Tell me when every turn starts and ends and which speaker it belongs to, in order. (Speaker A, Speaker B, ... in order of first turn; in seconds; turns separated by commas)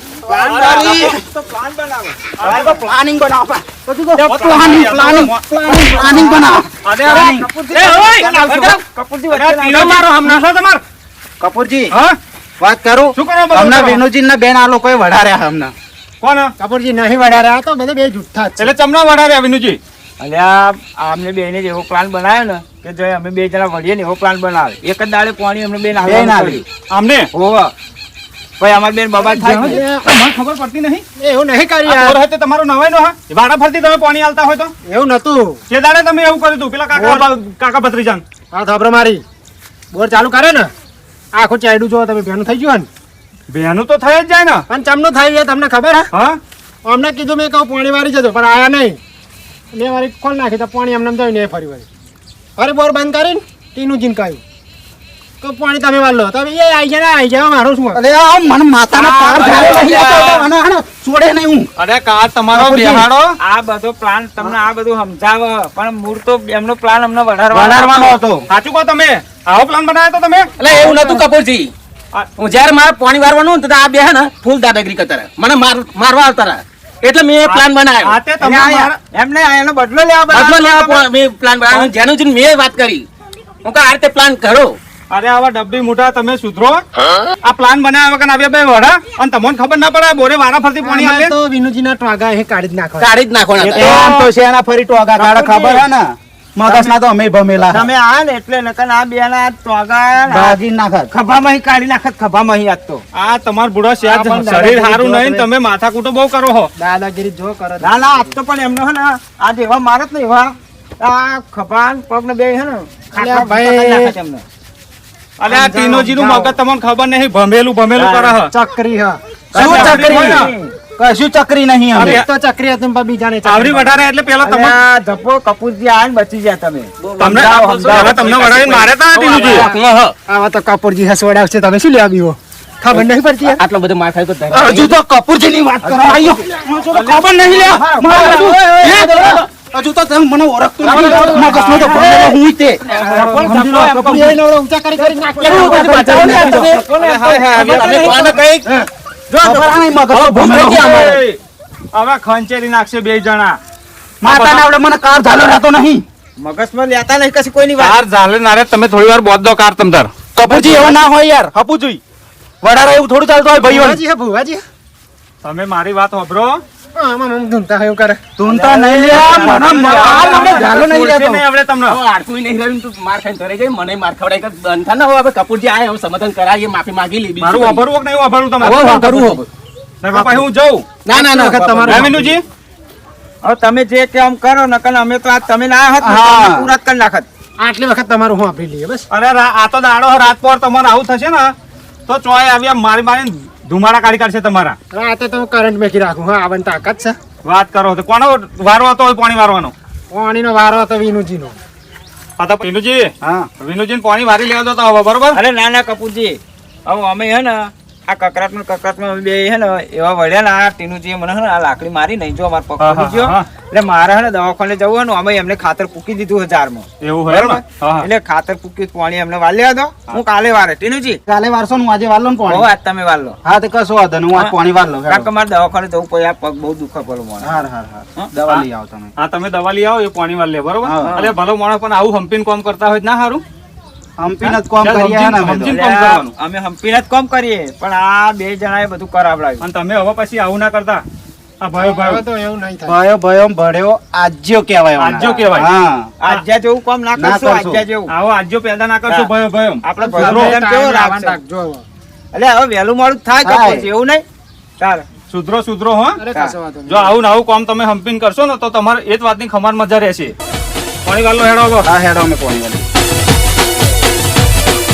Speaker A: 0.2-2.7, Speaker B: 0.2-1.0, Speaker C: 0.4-1.0, Speaker D: 0.7-1.2, Speaker C: 2.4-2.8, Speaker D: 2.5-7.5, Speaker C: 4.2-8.4, Speaker E: 5.1-6.3, Speaker A: 7.1-10.0, Speaker B: 7.8-8.8, Speaker C: 9.3-10.8, Speaker B: 10.1-10.4, Speaker D: 11.4-11.9, Speaker C: 11.9-12.2, Speaker D: 12.6-15.7, Speaker C: 13.2-14.0, Speaker C: 16.2-16.5, Speaker E: 16.6-18.7, Speaker C: 18.6-19.8, Speaker A: 20.2-26.6, Speaker D: 26.0-26.6, Speaker C: 26.9-27.3, Speaker A: 27.3-27.7, Speaker A: 28.6-29.8, Speaker E: 29.2-30.0, Speaker C: 29.3-31.0, Speaker E: 31.2-32.2, Speaker C: 31.8-34.7, Speaker E: 34.8-35.6, Speaker C: 35.7-38.2, Speaker E: 36.9-37.3, Speaker E: 38.5-39.2, Speaker E: 39.9-40.7, Speaker E: 41.3-42.9, Speaker C: 43.5-44.6, Speaker E: 44.7-46.1, Speaker C: 46.1-46.4, Speaker E: 46.8-49.0, Speaker E: 49.7-51.9, Speaker E: 52.6-54.4, Speaker E: 55.4-58.0, Speaker D: 57.9-61.7, Speaker C: 58.9-60.5, Speaker C: 61.8-63.4, Speaker D: 62.5-63.1, Speaker A: 63.4-68.1, Speaker D: 67.5-68.4, Speaker C: 67.8-71.2, Speaker B: 70.6-71.7, Speaker B: 72.4-78.2, Speaker C: 77.4-78.9, Speaker A: 78.4-81.0, Speaker B: 80.3-83.0, Speaker B: 83.6-84.8, Speaker C: 85.1-86.8, Speaker C: 87.4-91.3, Speaker E: 90.8-93.2, Speaker B: 93.0-94.0, Speaker C: 93.6-94.3, Speaker D: 93.7-96.0, Speaker A: 95.2-95.9, Speaker D: 96.5-97.9, Speaker A: 96.7-96.9, Speaker A: 97.7-100.6, Speaker D: 100.2-101.1, Speaker A: 101.1-103.0, Speaker C: 103.1-106.7, Speaker E: 104.0-105.5, Speaker E: 106.8-108.3, Speaker A: 107.8-114.4, Speaker E: 113.1-114.1, Speaker C: 115.4-118.5, Speaker E: 115.5-116.5, Speaker A: 118.0-118.4, Speaker E: 118.5-119.2, Speaker C: 119.5-120.5, Speaker A: 119.5-120.7, Speaker D: 119.5-122.2, Speaker E: 121.9-124.1, Speaker C: 122.0-122.2, Speaker C: 123.4-124.7, Speaker A: 124.4-128.9, Speaker C: 127.2-129.7, Speaker B: 127.8-130.1, Speaker E: 130.3-133.6, Speaker B: 132.9-134.9, Speaker D: 134.5-144.3, Speaker A: 135.8-136.3, Speaker C: 136.8-138.3, Speaker B: 138.0-139.5, Speaker B: 140.8-142.3, Speaker C: 140.9-142.3, Speaker C: 142.9-144.3, Speaker A: 143.1-143.5, Speaker E: 143.8-146.6, Speaker A: 145.0-145.7, Speaker D: 145.4-146.7, Speaker B: 145.4-148.5, Speaker A: 146.3-148.7, Speaker C: 146.9-148.2, Speaker A: 149.3-150.0, Speaker D: 149.4-151.2, Speaker B: 150.1-151.1, Speaker C: 150.4-151.4, Speaker C: 151.9-153.6, Speaker D: 154.2-156.0, Speaker C: 154.3-154.6, Speaker A: 156.4-158.0, Speaker C: 157.8-161.0, Speaker D: 160.3-161.5, Speaker C: 161.5-162.0, Speaker D: 162.6-164.0, Speaker E: 163.6-164.6, Speaker C: 165.4-166.6, Speaker E: 166.9-168.2, Speaker D: 168.4-171.4, Speaker A: 168.4-170.7, Speaker C: 169.0-172.0, Speaker B: 170.3-170.7, Speaker B: 171.8-177.8, Speaker C: 177.4-179.4, Speaker B: 178.6-179.4, Speaker C: 180.0-180.9, Speaker E: 180.1-180.5, Speaker B: 181.0-182.2, Speaker E: 181.1-182.3, Speaker C: 181.9-182.4, Speaker A: 183.4-187.3, Speaker D: 186.0-186.7, Speaker E: 187.6-189.1, Speaker C: 189.1-191.5, Speaker C: 192.1-194.8, Speaker E: 194.9-197.2, Speaker C: 197.4-199.7, Speaker E: 200.1-201.6, Speaker C: 202.4-205.4, Speaker D: 203.2-203.5, Speaker A: 205.3-221.2, Speaker C: 212.8-213.4, Speaker C: 217.0-218.1, Speaker D: 221.3-222.7, Speaker A: 222.5-223.4, Speaker D: 223.4-225.3, Speaker A: 225.1-227.6, Speaker D: 227.4-229.1, Speaker C: 228.4-228.6, Speaker C: 229.2-233.4, Speaker D: 230.8-231.1, Speaker A: 231.0-231.3, Speaker D: 234.2-235.8, Speaker C: 234.4-236.3, Speaker A: 235.6-239.6, Speaker C: 239.6-241.0, Speaker C: 241.6-242.2, Speaker E: 241.8-243.0, Speaker D: 242.8-246.1, Speaker C: 245.0-245.7, Speaker A: 245.2-245.5, Speaker A: 246.2-248.1, Speaker D: 247.2-247.8, Speaker C: 248.1-250.6, Speaker A: 249.1-249.3, Speaker A: 249.8-251.4, Speaker E: 250.0-251.8, Speaker A: 252.3-254.2, Speaker D: 253.4-253.8, Speaker A: 254.8-255.1, Speaker C: 255.3-256.2, Speaker E: 256.2-257.2, Speaker C: 256.9-260.3, Speaker C: 261.1-261.9, Speaker D: 261.8-262.8